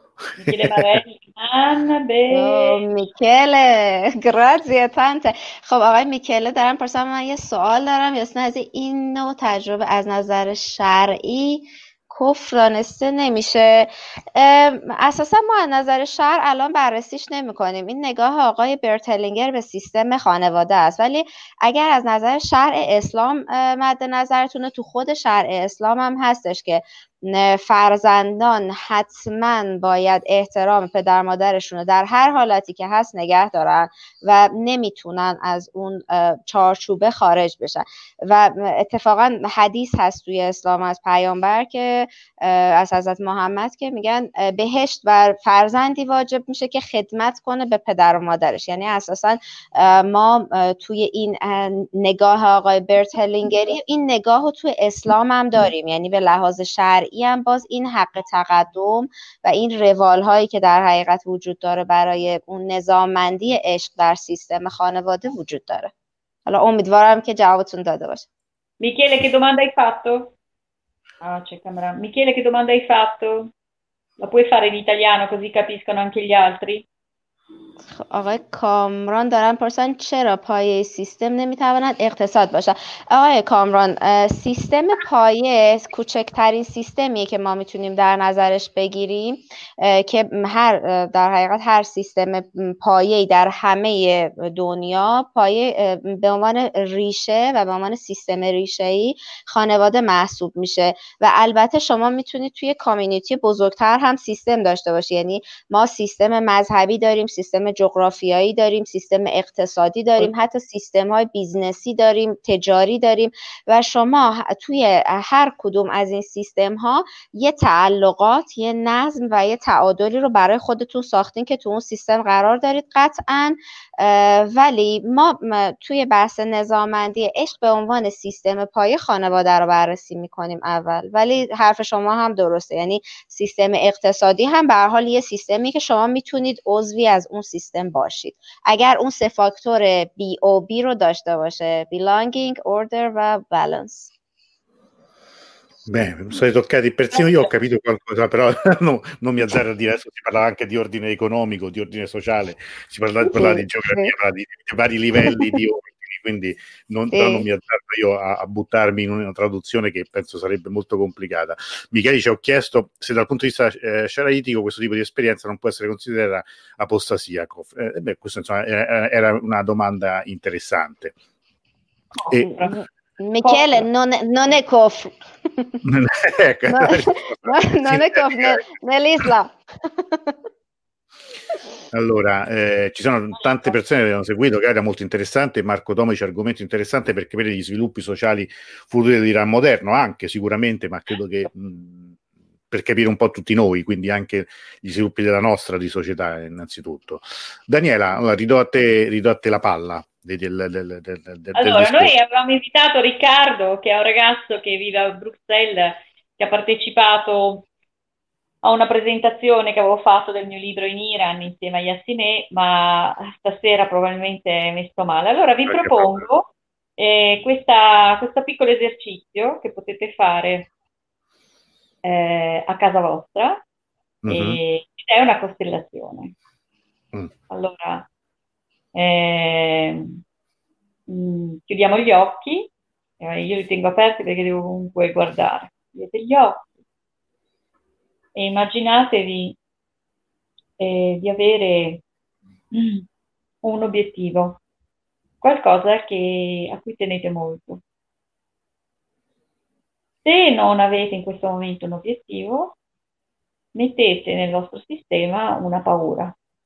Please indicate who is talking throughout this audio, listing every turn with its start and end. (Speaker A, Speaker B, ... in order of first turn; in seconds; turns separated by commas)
Speaker A: 0.4-2.8, Speaker B: 0.5-1.0, Speaker C: 2.3-65.9, Speaker C: 66.5-68.3, Speaker A: 68.8-70.3, Speaker A: 71.2-73.5, Speaker A: 74.2-76.8, Speaker C: 77.9-144.1, Speaker B: 145.9-171.2, Speaker A: 147.2-147.5, Speaker C: 153.3-154.1, Speaker C: 155.3-155.5, Speaker C: 157.1-157.5, Speaker A: 172.2-172.8, Speaker C: 172.5-175.8, Speaker A: 173.4-173.9, Speaker B: 175.8-178.6, Speaker C: 176.7-180.3, Speaker B: 181.9-192.1, Speaker B: 192.7-202.2, Speaker A: 201.6-207.7, Speaker A: 208.6-220.7, Speaker B: 215.7-216.2, Speaker A: 222.0-223.6, Speaker B: 224.2-224.6, Speaker A: 224.3-226.3, Speaker A: 227.5-228.1, Speaker A: 228.9-230.2, Speaker A: 231.1-236.7, Speaker A: 238.4-239.6, Speaker A: 240.8-242.0, Speaker A: 242.7-243.1, Speaker A: 243.6-244.6, Speaker A: 245.4-247.8, Speaker A: 250.2-252.8, Speaker A: 253.7-256.4